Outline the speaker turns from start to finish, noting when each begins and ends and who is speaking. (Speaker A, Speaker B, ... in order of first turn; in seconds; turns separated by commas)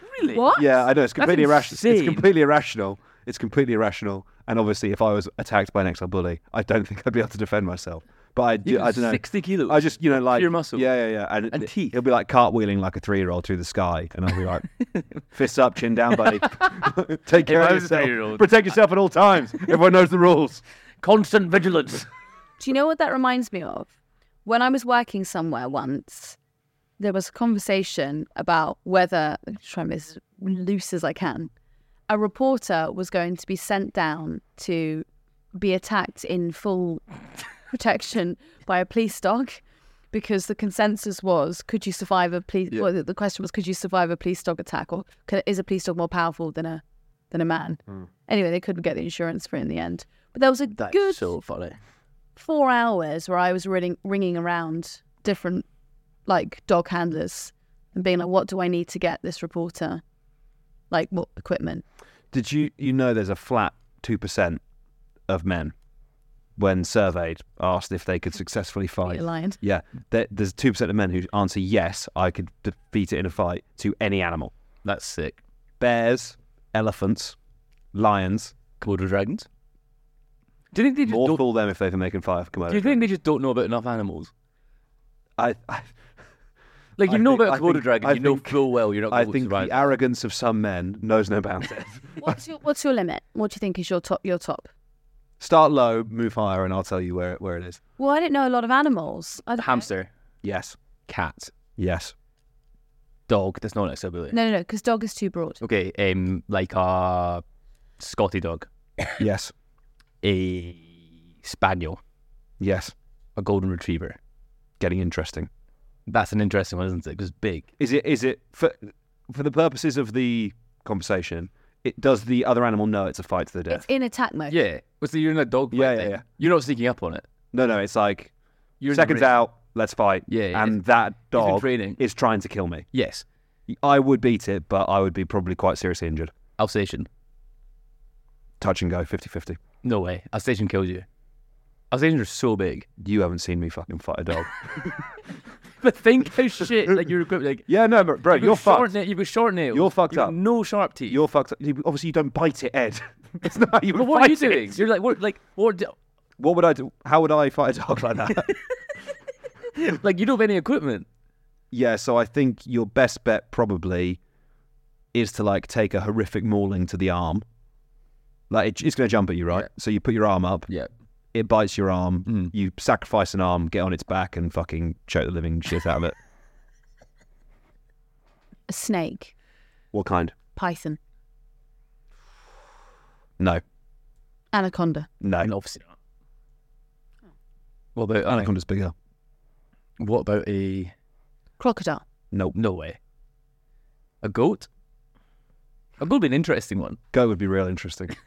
Speaker A: 0.1-2.3, Speaker B: 0.3-0.7, Speaker C: 0.6-14.7, Speaker A: 8.7-12.0, Speaker C: 15.3-20.6, Speaker A: 16.2-18.6, Speaker A: 21.0-22.1, Speaker B: 22.6-23.9, Speaker B: 24.4-26.4, Speaker B: 27.0-31.5, Speaker B: 32.1-37.0, Speaker B: 37.7-39.6, Speaker B: 40.1-51.3, Speaker A: 50.8-51.8, Speaker B: 52.4-55.7, Speaker B: 56.3-60.0, Speaker B: 60.9-61.8, Speaker C: 62.3-64.6, Speaker C: 65.3-65.7, Speaker C: 66.6-74.5, Speaker B: 69.1-69.6, Speaker A: 74.8-75.4, Speaker C: 75.8-77.4, Speaker C: 77.9-78.5, Speaker A: 78.8-79.5, Speaker A: 80.7-81.4, Speaker C: 81.1-83.0, Speaker A: 82.7-84.3, Speaker C: 85.4-85.9, Speaker A: 87.0-89.8, Speaker C: 87.1-92.3, Speaker B: 92.2-94.7, Speaker C: 95.4-97.8, Speaker B: 98.0-99.9, Speaker A: 99.6-100.1, Speaker C: 100.4-100.8, Speaker A: 101.1-101.5, Speaker C: 101.8-102.1, Speaker A: 103.3-104.3, Speaker B: 104.3-105.6, Speaker A: 105.6-107.4, Speaker A: 108.0-108.7, Speaker C: 109.2-109.5, Speaker A: 110.2-112.0, Speaker C: 112.6-112.9, Speaker A: 113.4-114.2, Speaker C: 114.8-115.5, Speaker A: 116.1-117.7, Speaker C: 117.8-123.9, Speaker B: 123.7-124.6, Speaker A: 124.5-127.3, Speaker C: 125.7-126.2, Speaker C: 127.5-128.3, Speaker A: 128.8-129.4, Speaker C: 128.9-132.9, Speaker A: 130.3-132.0, Speaker A: 132.9-133.2, Speaker C: 133.7-136.3, Speaker A: 136.6-137.1, Speaker C: 138.6-139.6, Speaker A: 139.8-141.1, Speaker A: 141.9-142.9, Speaker C: 143.0-145.0, Speaker A: 145.8-147.7, Speaker C: 147.7-148.9, Speaker A: 148.3-151.2, Speaker C: 149.7-150.4, Speaker C: 151.1-154.8, Speaker A: 154.0-155.9, Speaker C: 156.4-158.5, Speaker A: 159.8-161.1, Speaker C: 161.7-164.2, Speaker C: 165.1-167.4, Speaker C: 168.5-170.7, Speaker C: 171.3-176.2, Speaker A: 172.3-172.5, Speaker B: 178.7-179.3, Speaker C: 179.9-180.3, Speaker B: 180.6-181.0, Speaker B: 184.5-185.1, Speaker C: 185.2-185.5, Speaker A: 185.4-185.9, Speaker A: 188.0-188.5, Speaker C: 188.3-188.9, Speaker A: 190.0-190.9, Speaker B: 191.6-192.0, Speaker A: 192.6-193.0, Speaker A: 194.2-194.7, Speaker A: 196.0-197.0, Speaker C: 197.1-198.1